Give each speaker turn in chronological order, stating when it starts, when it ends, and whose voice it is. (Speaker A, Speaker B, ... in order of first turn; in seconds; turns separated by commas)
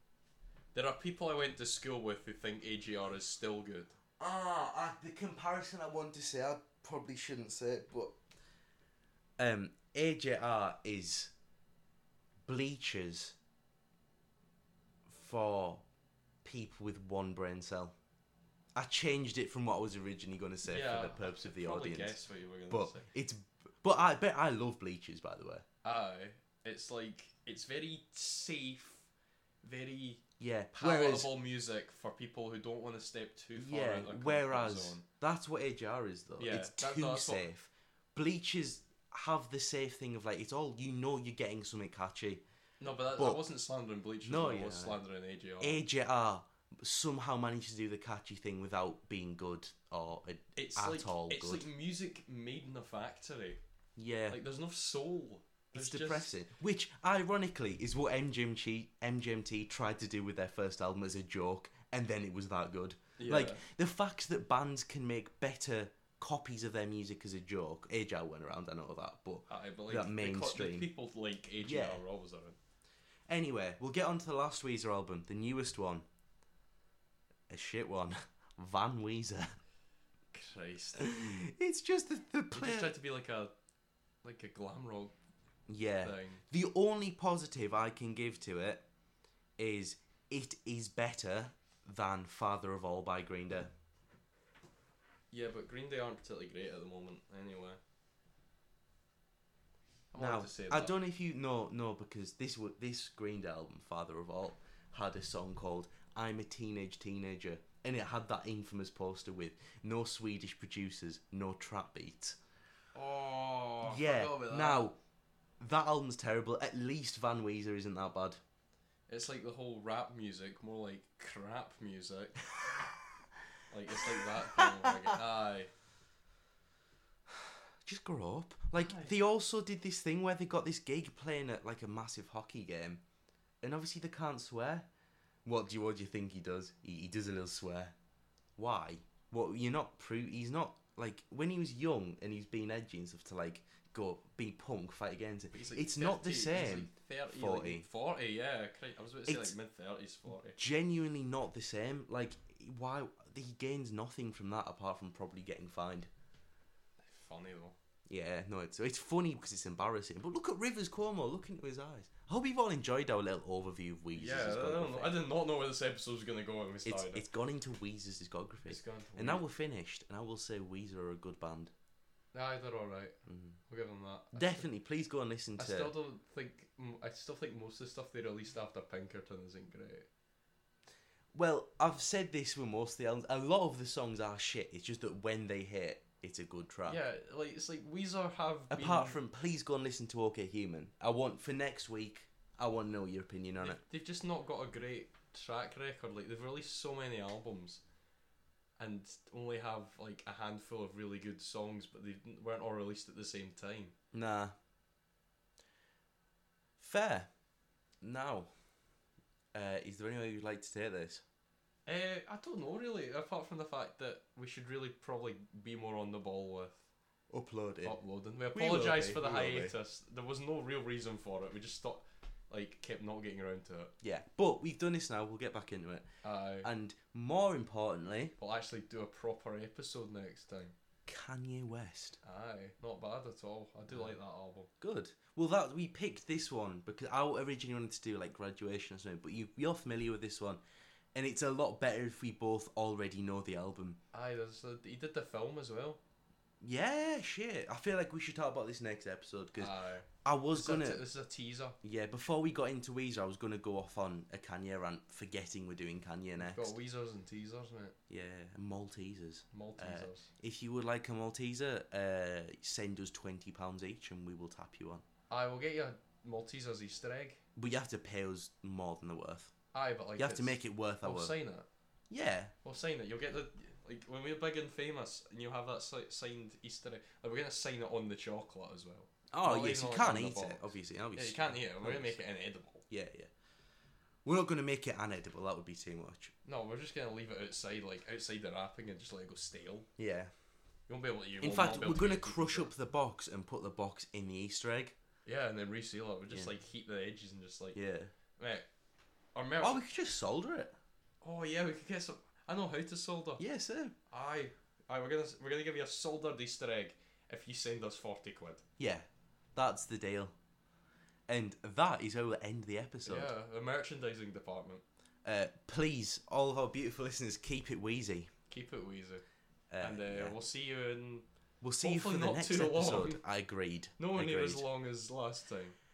Speaker A: 0.7-3.9, Speaker B: 4.2-8.2, Speaker B: 9.4-11.3, Speaker B: 12.5-13.3, Speaker B: 15.1-15.8, Speaker B: 16.4-17.9, Speaker B: 18.8-25.6, Speaker A: 20.6-23.1, Speaker A: 25.8-29.1, Speaker A: 29.6-30.2, Speaker B: 30.4-31.3, Speaker A: 30.8-35.0, Speaker B: 33.5-42.4, Speaker A: 36.4-37.5, Speaker A: 42.8-45.8, Speaker B: 43.1-43.4, Speaker B: 44.2-45.0, Speaker B: 45.6-51.6, Speaker A: 50.5-53.6, Speaker B: 54.0-54.4, Speaker A: 54.3-56.3, Speaker B: 55.7-70.9, Speaker A: 63.2-63.6, Speaker A: 69.5-72.6, Speaker B: 71.6-72.0, Speaker B: 73.3-76.0, Speaker B: 77.5-79.5, Speaker A: 80.3-81.1, Speaker B: 81.0-82.9, Speaker A: 82.5-83.5, Speaker A: 84.2-85.1, Speaker B: 85.7-88.8, Speaker A: 86.0-86.4, Speaker B: 89.6-93.7, Speaker A: 95.3-97.8, Speaker A: 100.1-101.0, Speaker B: 100.2-112.4, Speaker A: 112.9-114.9, Speaker B: 113.8-115.0, Speaker B: 115.6-118.4, Speaker A: 119.1-122.4, Speaker A: 123.7-125.7, Speaker B: 124.1-125.1, Speaker B: 127.8-133.0, Speaker A: 128.8-129.1, Speaker B: 133.6-134.9, Speaker B: 135.4-137.9, Speaker B: 138.6-147.8, Speaker A: 145.5-150.6, Speaker B: 149.3-149.5, Speaker B: 150.5-156.1, Speaker A: 157.0-157.7, Speaker B: 158.1-165.2, Speaker A: 164.2-167.2, Speaker B: 166.8-171.7, Speaker A: 168.7-169.4, Speaker A: 172.3-173.2, Speaker B: 173.3-173.6, Speaker A: 173.7-174.7, Speaker B: 174.3-175.9, Speaker A: 175.6-180.1, Speaker B: 181.3-187.0, Speaker A: 186.8-189.2, Speaker B: 188.7-193.8, Speaker A: 193.6-197.8, Speaker A: 198.8-203.9, Speaker B: 204.1-204.5, Speaker B: 206.8-207.3, Speaker B: 208.0-208.5, Speaker B: 209.5-211.2, Speaker A: 211.8-216.8, Speaker B: 217.3-218.0, Speaker A: 217.8-223.9, Speaker B: 218.5-219.8, Speaker B: 224.0-226.1, Speaker A: 226.2-226.7, Speaker B: 226.6-228.3, Speaker A: 228.4-230.7, Speaker B: 231.1-232.2, Speaker A: 232.2-234.7, Speaker B: 234.8-240.6, Speaker B: 241.1-244.0, Speaker A: 244.1-246.0, Speaker B: 246.6-249.7, Speaker A: 249.6-251.8, Speaker B: 250.2-251.0, Speaker B: 251.8-256.8, Speaker A: 256.4-257.9, Speaker B: 258.1-265.0, Speaker A: 259.5-260.3, Speaker A: 265.3-267.4, Speaker B: 267.5-269.5, Speaker A: 269.7-271.7, Speaker B: 270.2-271.4, Speaker B: 272.1-272.5, Speaker A: 272.6-282.8, Speaker B: 279.3-282.2, Speaker B: 282.9-283.3, Speaker B: 284.2-286.3, Speaker A: 286.4-289.9, Speaker B: 290.0-290.3, Speaker A: 290.9-292.7, Speaker B: 291.4-294.9, Speaker A: 295.2-297.8, Speaker B: 297.7-298.1, Speaker A: 298.4-298.6, Speaker A: 299.3-299.8, Speaker B: 299.6-300.7, Speaker A: 301.2-303.4, Speaker B: 303.4-303.9, Speaker A: 304.1-308.6, Speaker B: 308.8-310.3, Speaker B: 311.3-313.3, Speaker A: 313.1-314.8, Speaker B: 315.2-318.3, Speaker A: 318.5-319.2, Speaker B: 319.7-320.4, Speaker A: 319.8-321.2, Speaker B: 321.6-324.6, Speaker A: 321.8-323.2, Speaker A: 324.0-325.8